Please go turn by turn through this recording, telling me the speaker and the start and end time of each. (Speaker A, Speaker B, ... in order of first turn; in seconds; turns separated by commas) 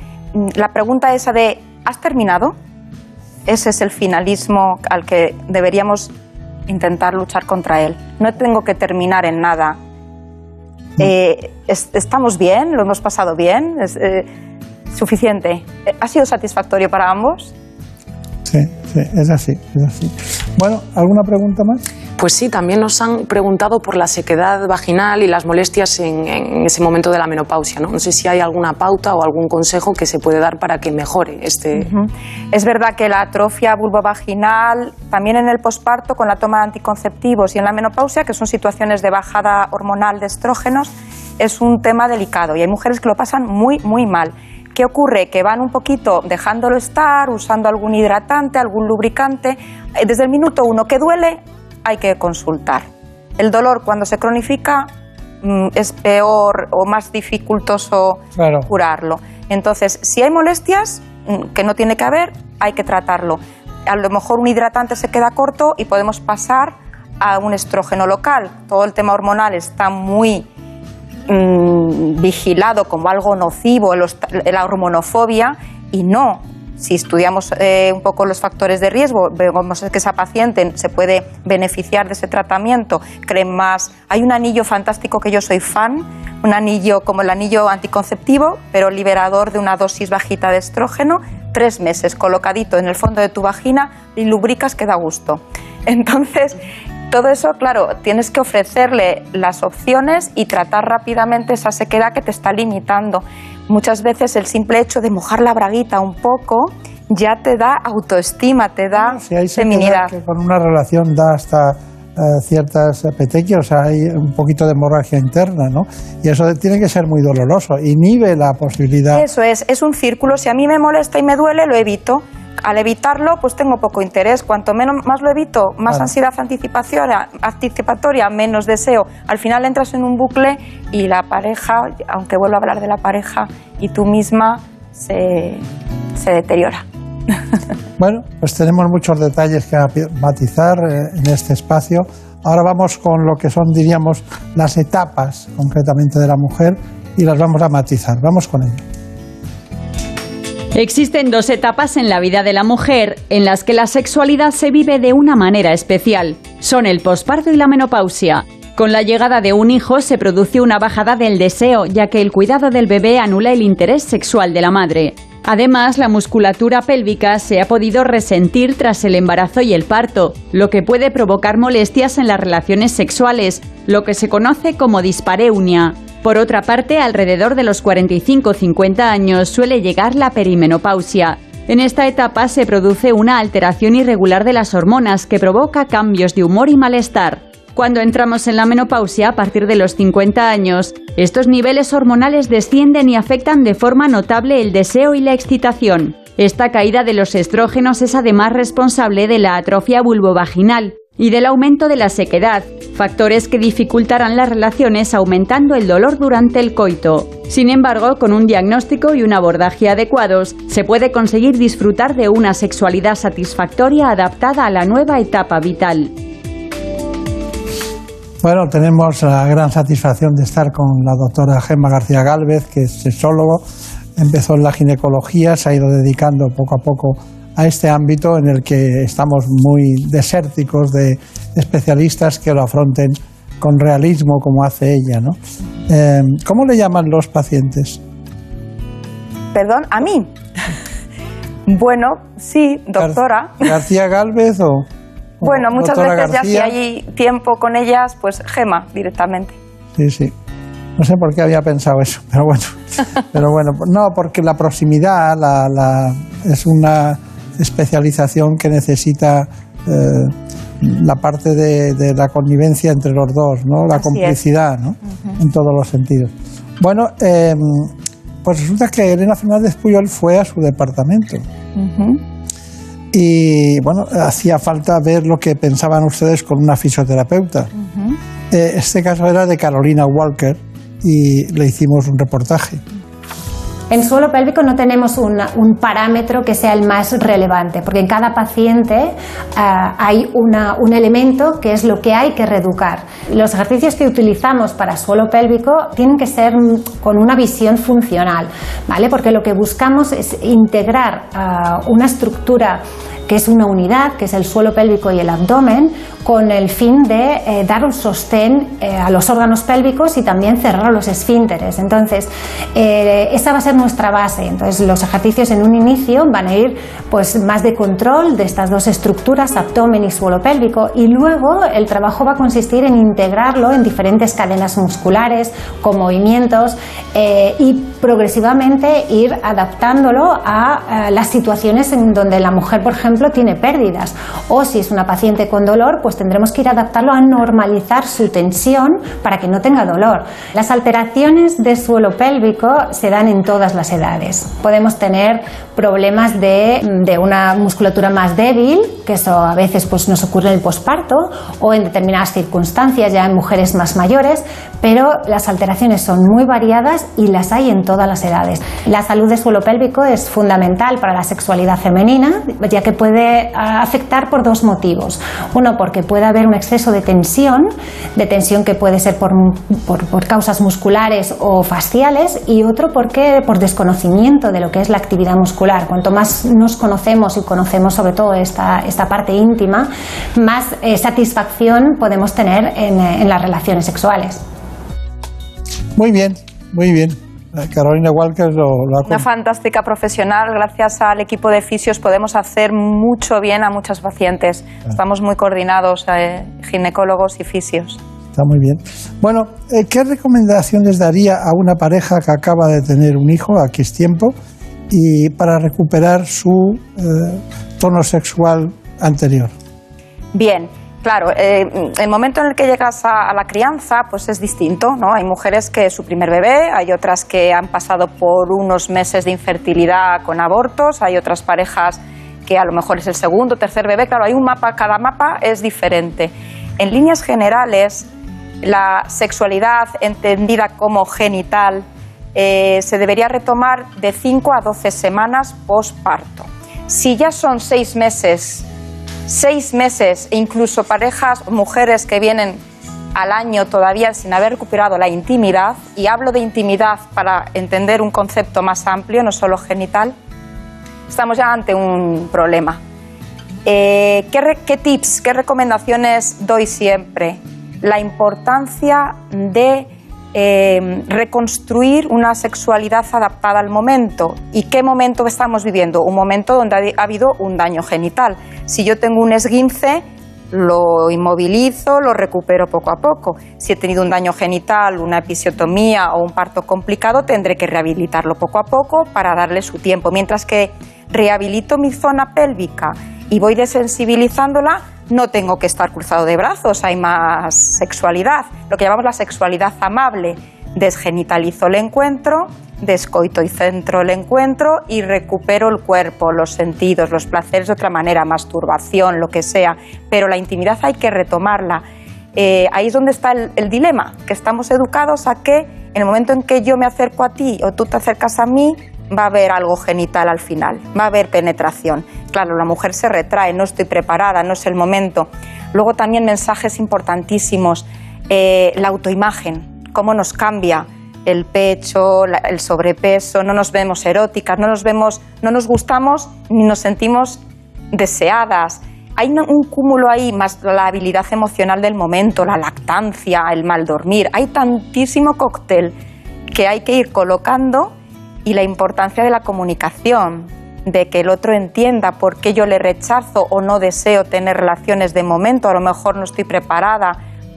Speaker A: 0.3-2.6, Speaker A: 3.5-6.1, Speaker A: 6.7-9.8, Speaker A: 11.0-14.3, Speaker A: 14.9-17.5, Speaker B: 18.5-21.8, Speaker C: 22.2-31.9, Speaker A: 31.8-52.9, Speaker A: 53.4-54.9, Speaker A: 55.4-70.5, Speaker B: 58.4-58.7, Speaker A: 71.3-96.6, Speaker A: 97.1-110.1, Speaker B: 108.9-119.3, Speaker A: 119.1-135.6, Speaker A: 136.2-136.8, Speaker B: 138.0-148.8, Speaker D: 150.7-216.1, Speaker B: 218.4-223.6, Speaker B: 224.2-235.4, Speaker B: 235.9-238.0, Speaker A: 239.5-240.3, Speaker A: 241.7-243.7, Speaker B: 243.0-244.9, Speaker B: 245.4-246.8, Speaker A: 245.4-249.6, Speaker B: 250.0-250.3, Speaker B: 251.0-252.8, Speaker B: 253.3-271.4, Speaker A: 263.9-264.4, Speaker A: 271.8-272.2, Speaker B: 273.1-277.7, Speaker B: 278.5-282.8, Speaker E: 283.9-384.4, Speaker B: 386.0-389.3, Speaker A: 389.1-398.0, Speaker B: 398.3-404.4, Speaker B: 404.9-409.5, Speaker A: 410.3-428.1, Speaker A: 428.6-438.6, Speaker A: 439.3-442.6, Speaker A: 443.1-450.1, Speaker A: 451.1-452.8, Speaker A: 453.6-501.8, Speaker A: 502.4-527.4, Speaker A: 527.9-536.0, Speaker A: 536.5-537.9, Speaker A: 538.5-547.2